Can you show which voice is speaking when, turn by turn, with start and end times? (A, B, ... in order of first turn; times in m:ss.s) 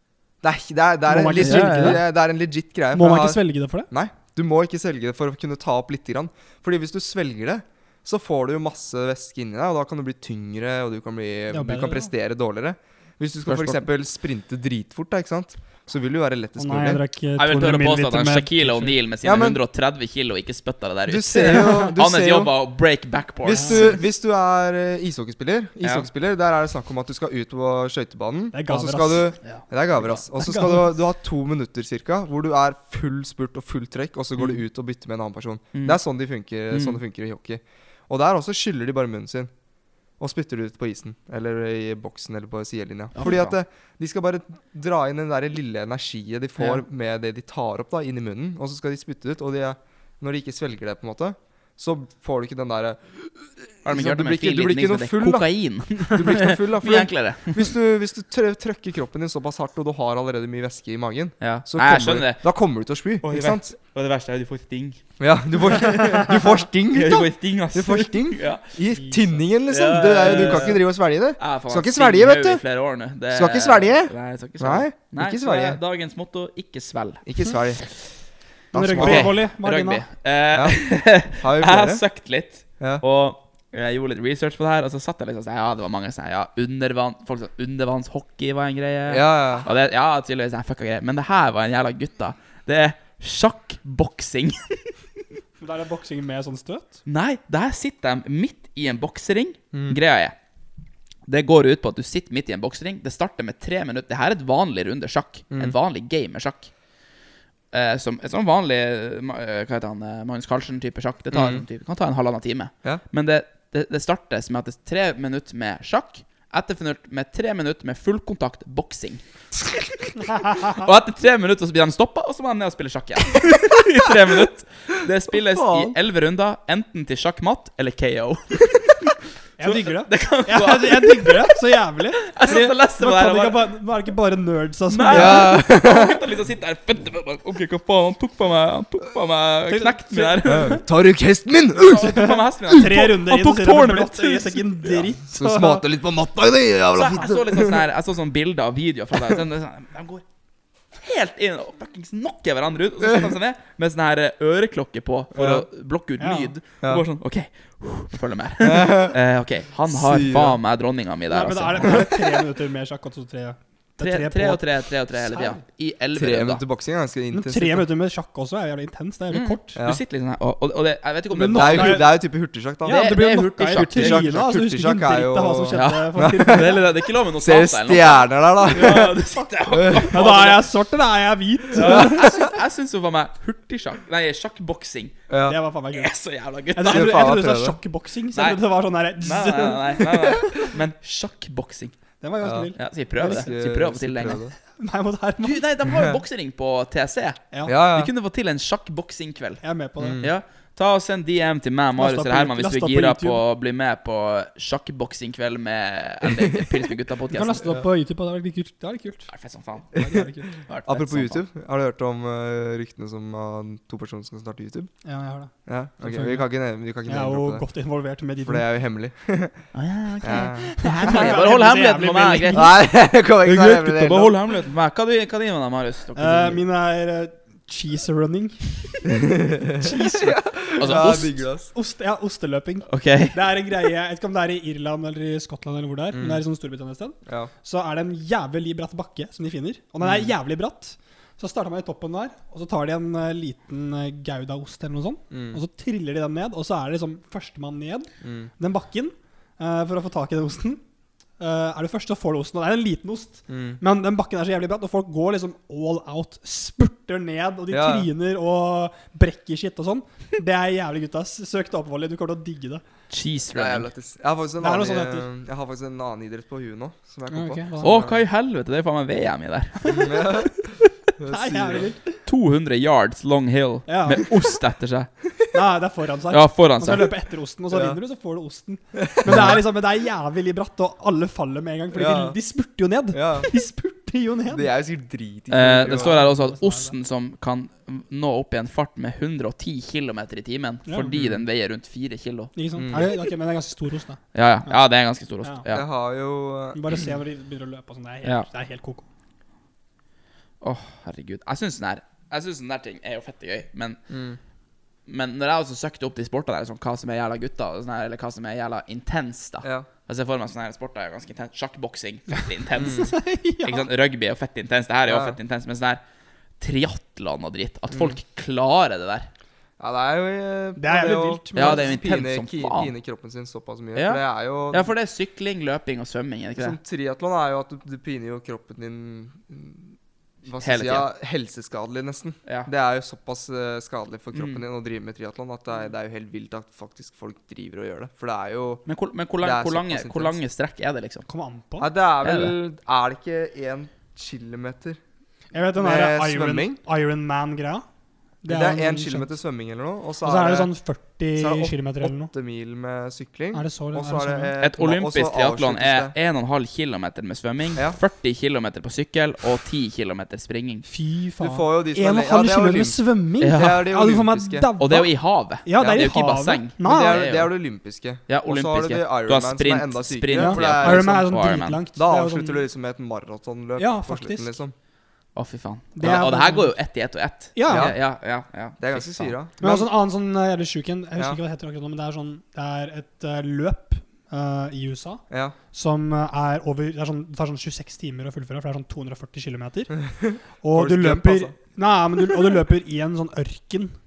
0:00.4-0:17.0 A
0:01.1-0:02.0 B
0:01.4-0:02.0 C
0:02.9-0:03.9 B
0:11.5-0:12.0 B
0:13.5-0:13.9 C
0:16.6-0:19.0 B
0:17.4-0:24.0 C
0:19.2-0:19.6 A
0:21.1-0:22.5 A
0:23.4-0:39.5 A
0:23.5-0:24.0 B
0:25.8-0:26.1 C
0:28.5-0:29.3 B
0:30.4-0:30.9 B
0:35.7-0:36.0 C
0:36.7-0:37.0 C
0:40.2-0:55.5 A
0:43.2-0:43.5 C
0:53.8-0:57.7 C
0:56.0-1:03.7 A
1:01.4-1:02.4 C
1:03.2-1:05.0 C
1:05.2-1:12.6 A
1:05.8-1:08.7 C
1:08.9-1:09.4 B
1:09.7-1:10.8 C
1:11.4-1:17.2 C
1:13.3-1:15.8 A
1:17.3-1:17.8 A
1:18.7-1:19.4 A
1:18.7-1:20.1 B
1:19.0-1:35.0 C
1:20.5-1:20.8 A
1:21.3-1:22.0 A
1:29.1-1:29.7 A
1:35.6-1:37.0 B
1:37.1-1:40.3 C
1:39.7-1:40.0 A
1:41.3-1:46.7 C
1:45.5-1:45.8 A
1:47.7-2:11.6 C
1:51.3-1:51.6 A
2:00.3-2:00.8 B
2:05.5-2:06.0 A
2:09.6-2:15.5 B
2:12.2-2:13.7 C
2:14.9-2:20.8 C
2:15.1-2:16.3 A
2:19.7-2:20.8 B
2:20.4-2:22.2 A
2:21.8-2:25.1 C
2:22.0-2:25.9 B
2:25.3-2:27.8 A
2:26.9-2:30.2 C
2:29.2-2:29.4 A
2:31.0-2:42.1 C
2:35.4-2:35.7 A
2:36.2-2:36.5 B
2:38.6-2:39.2 A
2:39.9-2:40.6 A
2:41.3-2:45.6 B
2:41.8-2:42.1 A
2:44.0-2:46.6 C
2:46.1-2:47.9 A
2:47.3-2:49.8 B
2:49.3-2:52.1 C
2:49.8-2:50.0 A
2:51.3-2:52.1 B
2:51.5-2:53.1 A
2:52.8-2:56.8 B
2:52.9-2:54.4 C
2:53.8-2:56.8 A
2:55.7-3:00.6 C
2:57.4-3:00.4 A
3:00.1-3:02.3 B
3:01.7-3:02.5 A
3:01.7-3:05.2 C
3:05.3-3:05.6 A
3:05.5-3:06.1 B
3:05.9-3:07.2 C
3:06.8-3:10.0 B
3:06.9-3:07.8 A
3:08.3-3:08.6 C
3:09.2-3:11.9 C
3:10.1-3:10.7 A
3:12.2-3:13.5 B
3:12.4-3:12.7 A
3:12.8-3:14.4 C
3:13.3-3:14.6 A
3:14.8-3:15.6 B
3:15.4-3:19.6 C
3:15.8-3:16.2 A
3:17.7-3:18.1 A
3:19.6-3:20.2 B
3:20.0-3:20.3 A
3:20.2-3:27.7 C
3:22.0-3:23.4 B
3:27.3-3:29.3 B
3:29.3-3:30.0 C
3:29.9-3:30.5 B
3:29.9-3:34.9 A
3:30.7-3:31.4 C
3:35.0-3:36.5 B
3:35.7-3:37.6 A
3:37.1-3:38.6 B
3:38.4-3:39.6 A
3:39.7-3:42.8 C
3:40.2-3:41.4 A
3:40.3-3:42.7 B
3:42.5-3:44.4 A
3:43.4-3:46.6 C
3:46.2-3:49.2 B
3:49.1-3:51.7 A
3:49.8-4:10.8 B
3:50.8-3:51.4 C
3:52.9-3:53.4 C
3:56.1-3:56.4 A
4:05.3-4:05.6 A
4:08.2-4:08.5 A
4:11.4-4:22.8 B
4:13.5-4:13.8 A
4:17.7-4:18.1 A
4:23.1-4:23.9 C
4:23.5-4:28.2 A
4:24.6-4:25.3 B
4:27.3-4:28.0 B
4:27.8-4:30.2 C
4:29.9-4:31.9 A
4:31.3-4:32.1 B
4:32.3-4:35.1 C
4:33.9-4:34.3 B
4:35.5-4:44.7 B
4:36.3-4:37.1 C
4:37.7-4:38.0 A
4:39.0-4:39.6 A
4:39.3-4:39.5 C
4:41.9-4:42.4 A
4:43.1-4:43.5 A
4:44.5-4:46.3 A
4:45.5-4:53.1 C
4:45.9-4:46.9 B
4:50.9-4:51.2 B
4:51.1-4:51.4 A
4:52.6-4:54.8 B
4:52.8-4:53.1 A
4:54.3-4:55.8 C
4:55.7-4:57.0 A
4:56.7-4:59.0 B
5:00.6-5:04.0 C
5:04.1-5:04.4 A
5:05.1-5:16.0 C
5:09.6-5:09.9 A
5:12.8-5:13.1 A
5:13.0-5:13.9 B
5:15.1-5:15.4 A
5:16.6-5:19.3 C
5:19.8-5:24.9 A
5:20.8-5:22.0 B
5:21.6-5:22.9 C
5:24.0-5:26.8 C
5:26.6-5:38.8 A
5:30.6-5:31.1 C
5:34.3-5:34.6 C
5:38.9-5:41.3 C
5:39.4-5:40.4 A
5:41.3-5:41.9 B
5:41.8-5:45.0 A
5:42.2-5:42.5 C
5:45.5-5:47.8 B
5:45.8-5:46.8 A
5:48.4-5:49.4 B
5:48.5-5:50.7 A
5:50.2-5:52.3 B
5:51.4-5:56.1 A
5:53.5-5:54.5 B
5:54.6-6:00.8 C
6:00.8-6:07.2 B
6:01.4-6:04.7 A
6:03.4-6:03.8 C
6:04.8-6:07.5 C
6:06.8-6:11.2 A
6:08.3-6:11.8 C
6:10.3-6:12.6 B
6:12.0-6:14.8 A
6:13.8-6:14.6 B
6:15.4-6:19.4 C
6:16.0-6:16.7 B
6:17.6-6:17.9 B
6:17.7-6:18.0 A
6:18.8-6:19.9 A
6:19.6-6:30.0 B
6:25.3-6:25.6 A
6:30.1-6:31.6 A
6:30.6-6:33.9 B